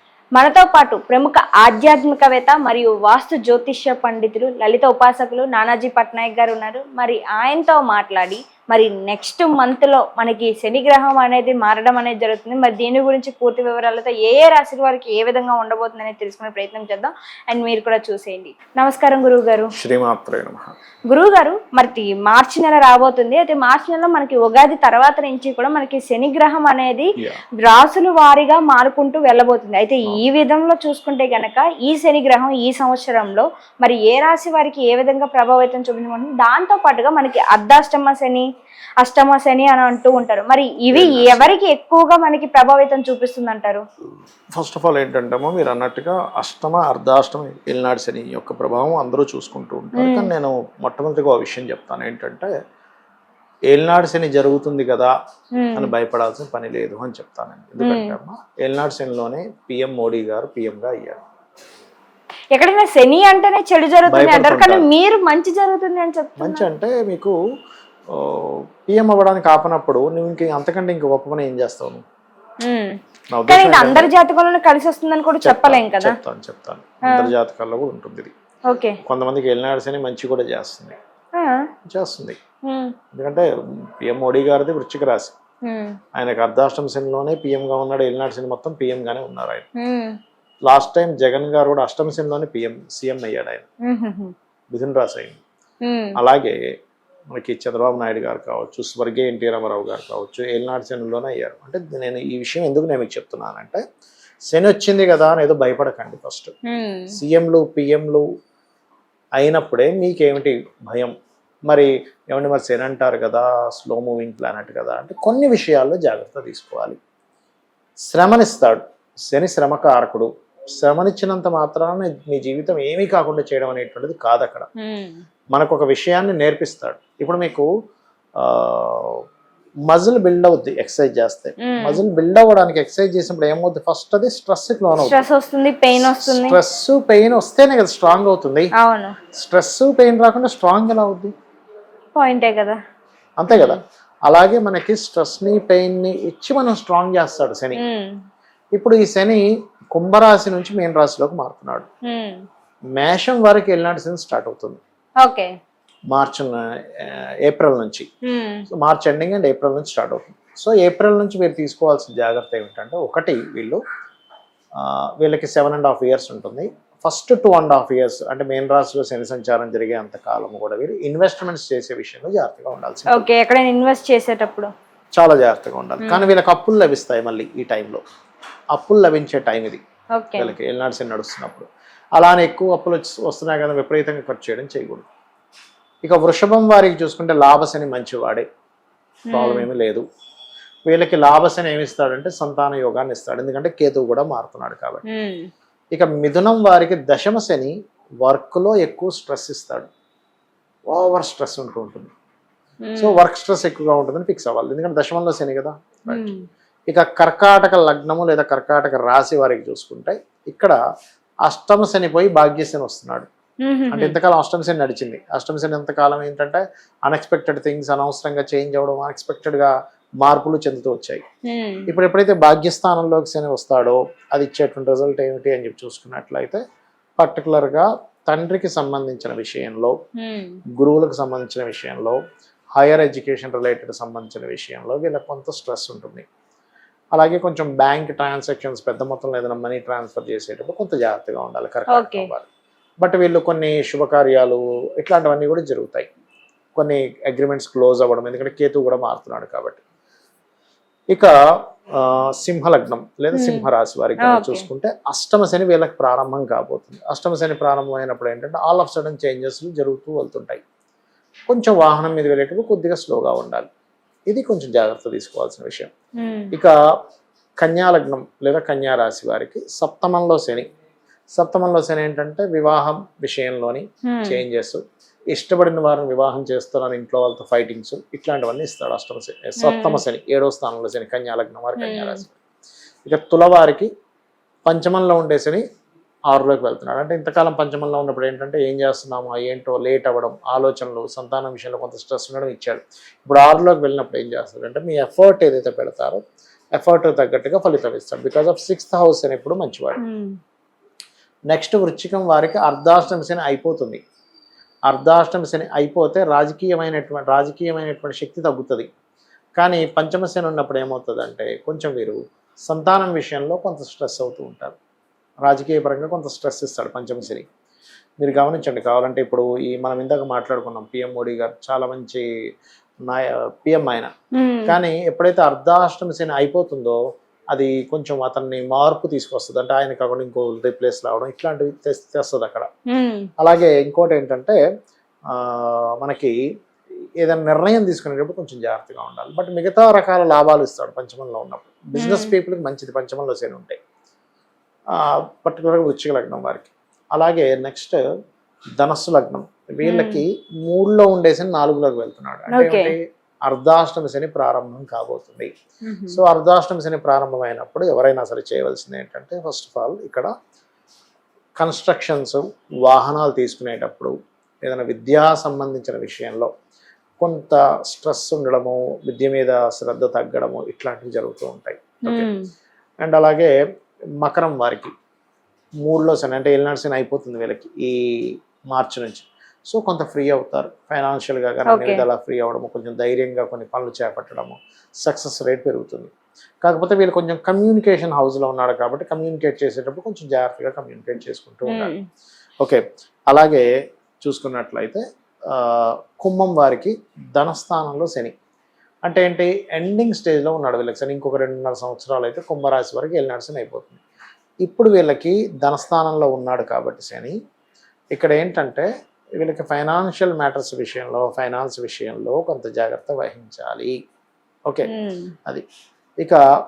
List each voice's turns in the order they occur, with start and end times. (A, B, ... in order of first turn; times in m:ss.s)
0:00.4-0:19.7 A
0:19.7-0:20.7 B
0:21.1-0:27.1 A
0:27.6-0:38.4 A
0:39.0-0:43.8 A
0:40.9-0:41.4 B
0:44.6-0:52.5 B
0:50.0-0:50.3 A
0:53.7-0:55.1 B
0:55.6-0:55.9 A
0:55.8-1:01.2 B
0:57.8-0:58.2 A
1:02.5-1:06.6 A
1:04.1-1:04.9 B
1:06.4-1:07.4 B
1:08.1-1:12.0 B
1:12.6-1:12.9 A
1:13.3-1:14.1 B
1:13.5-1:16.2 A
1:15.4-1:18.3 B
1:17.0-1:17.3 A
1:18.7-1:19.0 A
1:19.0-1:21.0 B
1:21.4-1:21.6 A
1:21.8-1:22.4 B
1:22.6-1:22.9 A
1:23.1-1:23.5 B
1:24.0-1:25.3 B
1:25.6-1:26.0 A
1:26.1-1:29.6 B
1:29.8-1:30.2 A
1:30.6-1:33.6 B
1:33.8-1:34.3 A
1:34.7-1:35.4 B
1:35.8-1:36.2 A
1:36.2-1:36.6 B
1:37.3-1:43.8 B
1:44.5-1:46.5 B
1:46.7-1:47.1 A
1:47.2-1:48.2 B
1:49.4-1:51.1 B
1:51.7-1:57.0 B
1:58.1-2:04.7 B
2:04.8-2:05.2 A
2:05.5-2:07.7 B
2:08.4-2:09.2 B
2:09.9-2:15.2 B
2:11.6-2:12.0 A
2:15.0-2:16.6 A
2:16.0-2:18.7 B
2:18.8-2:19.2 A
2:19.3-2:21.3 B
2:22.1-2:22.8 A
2:23.4-2:27.8 B
2:23.5-2:23.8 A
2:27.7-2:28.1 A
2:28.7-2:31.9 B
2:32.1-2:32.4 A
2:33.0-2:34.8 B
2:35.2-2:35.5 A
2:36.1-2:38.1 B
2:38.2-2:38.6 A
2:38.7-2:43.8 B
2:44.8-2:53.3 B
2:53.1-2:54.7 A
2:55.1-2:58.0 B
2:58.7-2:59.8 B
3:00.2-3:00.5 A
3:00.4-3:05.0 B
3:06.0-3:08.4 B
3:09.3-3:09.7 A
3:09.3-3:10.0 B
3:10.8-3:15.0 B
3:15.0-3:15.5 A
3:15.9-3:19.9 B
3:20.9-3:22.1 B
3:22.8-3:23.2 A
3:23.0-3:26.3 B
3:26.1-3:26.4 A
3:26.9-3:30.8 B
3:31.5-3:33.3 B
3:33.6-3:34.2 A
3:33.9-3:41.2 B
3:41.5-3:41.9 A
3:41.9-3:46.6 B
3:47.2-3:49.9 B
3:50.2-3:50.6 A
3:50.8-3:52.2 B
3:52.8-3:56.2 B
3:57.1-4:02.5 B
4:01.9-4:02.3 A
4:03.0-4:06.1 B
4:06.8-4:09.8 B
4:11.9-4:20.6 B
4:13.3-4:13.7 A
4:14.2-4:14.6 A
4:21.5-4:23.7 B
4:24.3-4:25.9 B
4:26.2-4:26.5 A
4:27.6-4:30.7 B
4:31.3-4:42.3 B
4:34.1-4:34.4 A
4:39.6-4:40.0 A
4:41.8-4:42.2 A
4:43.0-4:43.9 B
4:44.6-4:45.6 B
4:46.3-4:56.2 B
4:56.8-5:00.0 B
5:00.0-5:00.3 A
5:01.5-5:04.0 B
5:04.9-5:08.9 B
5:09.6-5:14.8 B
5:15.4-5:17.4 B
5:18.2-5:22.2 B
5:23.0-5:24.1 B
5:24.3-5:24.8 A
5:24.7-5:27.0 B
5:27.5-5:32.7 B
5:32.9-5:33.3 A
5:33.4-5:34.6 B
5:35.3-5:36.3 B
5:37.2-5:43.8 B
5:42.0-5:42.3 A
5:44.9-5:48.0 B
5:48.8-5:55.5 B
5:49.8-5:50.2 A
5:52.5-5:52.9 A
5:55.8-5:56.2 A
5:56.1-6:00.3 B
6:01.6-6:06.5 B
6:07.2-6:12.3 B
6:12.0-6:12.4 A
6:13.0-6:13.5 B
6:14.2-6:14.9 B
6:15.8-6:26.1 B
6:21.7-6:22.0 A
6:26.6-6:31.9 B
6:31.7-6:32.0 A
6:32.6-6:33.7 B
6:34.2-6:38.3 B
6:39.0-6:44.0 B
6:44.6-6:47.3 B
6:48.1-6:48.9 B
6:49.4-6:54.0 B
6:54.9-6:55.3 A